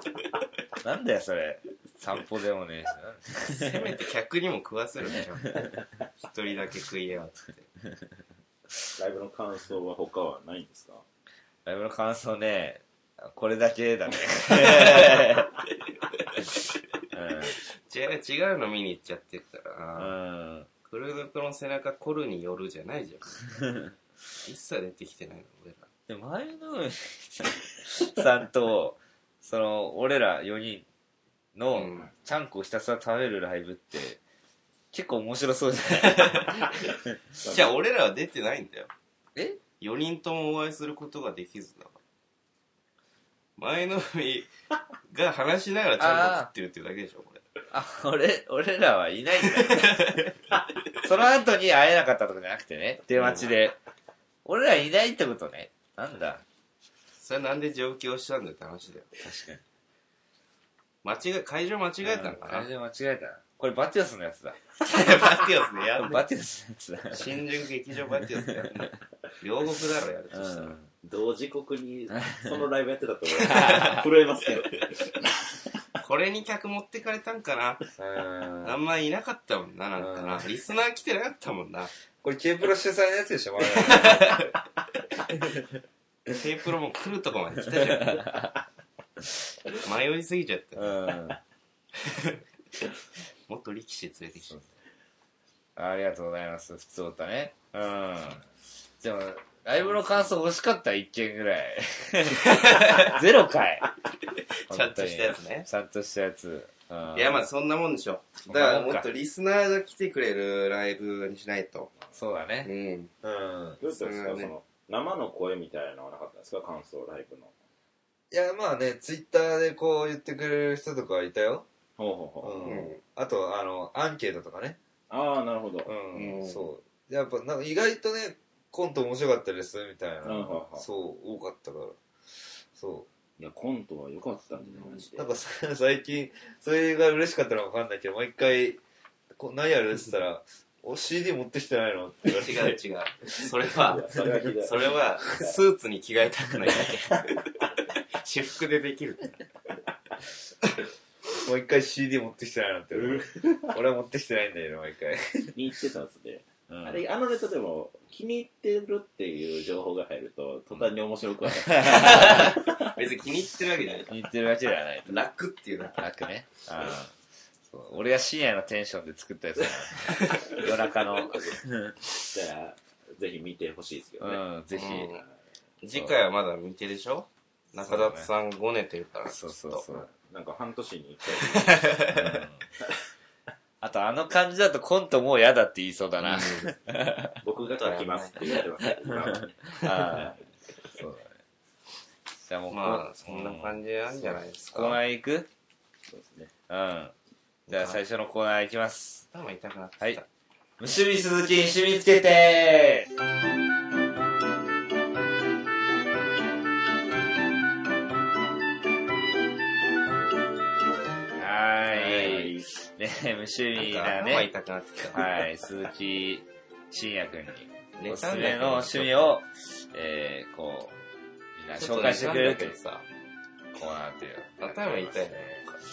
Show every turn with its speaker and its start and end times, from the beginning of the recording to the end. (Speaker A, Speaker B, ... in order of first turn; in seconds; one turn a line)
Speaker A: 0.8-3.9
Speaker B: 3.5-7.7
Speaker C: 9.0-11.0
Speaker A: 11.6-15.5
Speaker B: 14.5-15.4
Speaker B: 16.2-16.6
Speaker A: 17.1-17.6
Speaker B: 17.9-20.1
Speaker A: 19.9-20.7
Speaker B: 20.9-23.4
Speaker A: 23.6-23.9
Speaker B: 24.4-25.9
Speaker A: 26.1-30.9
Speaker A: 31.5-34.2
Speaker B: 31.7-32.1
Speaker A: 34.9-37.2
Speaker B: 35.9-36.8
Speaker B: 37.4-38.9
Speaker A: 39.3-39.6
Speaker B: 39.8-42.0
Speaker B: 43.6-44.5
Speaker B: 45.1-47.4
Speaker A: 46.0-46.5
Speaker A: 47.7-50.2
Speaker B: 49.4-50.6
Speaker A: 51.0-53.8
Speaker B: 53.1-53.5
Speaker A: 54.4-56.4
Speaker B: 57.2-59.1
Speaker A: 59.2-59.6
Speaker B: 61.0-62.7
Speaker A: 62.0-64.6
Speaker B: 64.8-66.2
Speaker A: 66.0-67.4
Speaker B: 67.1-70.8
Speaker A: 68.4-68.9
Speaker A: 70.3-70.9
Speaker C: 71.0-75.4
Speaker A: 72.2-72.5
Speaker B: 73.4-74.0
Speaker A: 73.5-74.0
Speaker B: 76.0-77.9
Speaker A: 78.0-78.8
Speaker B: 78.6-81.9
Speaker A: 80.0-80.5
Speaker A: 82.2-84.5
Speaker B: 83.7-84.5
Speaker A: 85.3-85.7
Speaker B: 86.3-88.3
Speaker A: 87.7-88.5
Speaker B: 89.7-91.2
Speaker A: 90.8-91.4
Speaker B: 92.0-92.4
Speaker B: 93.5-94.6
Speaker A: 95.8-98.4
Speaker A: 99.0-103.9
Speaker B: 102.4-103.2
Speaker B: 104.7-105.7
Speaker A: 104.7-107.4
Speaker B: 107.1-111.9
Speaker A: 108.5-109.1
Speaker A: 112.1-112.7
Speaker B: 112.6-113.1
Speaker A: 113.2-113.8
Speaker C: 113.8-117.5
Speaker B: 113.9-114.5
Speaker A: 118.3-121.7
Speaker C: 122.0-122.8
Speaker A: 122.4-124.8
Speaker B: 122.6-123.0
Speaker C: 125.1-125.9
Speaker A: 125.8-132.0
Speaker B: 126.1-126.7
Speaker C: 130.2-130.9
Speaker A: 132.7-133.1
Speaker C: 133.4-135.3
Speaker A: 135.2-138.8
Speaker A: 139.3-142.8
Speaker B: 142.2-147.6
Speaker C: 143.7-145.5
Speaker B: 148.2-149.4
Speaker A: 151.3-155.5
Speaker C: 152.9-153.8
Speaker C: 155.5-162.8
Speaker A: 156.7-157.0
Speaker A: 161.6-162.6
Speaker B: 161.8-164.1
Speaker A: 164.1-165.2
Speaker B: 165.1-166.0
Speaker A: 166.0-167.1
Speaker A: 167.7-172.1
Speaker B: 170.1-170.6
Speaker C: 170.5-171.6
Speaker C: 172.2-174.4
Speaker A: 174.2-175.1
Speaker B: 174.7-175.2
Speaker B: 175.8-179.9
Speaker A: 177.8-178.3
Speaker A: 179.3-180.1
Speaker C: 180.0-182.1
Speaker B: 181.4-182.4
Speaker A: 182.1-182.6
Speaker A: 183.8-187.4
Speaker B: 186.2-186.7
Speaker C: 187.4-190.4
Speaker B: 187.8-188.5
Speaker A: 188.5-190.4
Speaker A: 190.9-191.4
Speaker A: 192.5-195.5
Speaker B: 192.7-195.0
Speaker C: 196.1-196.5
Speaker A: 196.7-197.1
Speaker B: 197.7-198.0
Speaker A: 197.7-199.2
Speaker B: 199.3-200.2
Speaker A: 200.8-203.1
Speaker A: 211.3-214.5
Speaker C: 211.9-212.7
Speaker B: 213.7-215.3
Speaker A: 215.1-220.9
Speaker B: 218.0-219.3
Speaker A: 221.6-222.8
Speaker B: 221.8-223.0
Speaker A: 223.7-225.6
Speaker B: 224.6-225.8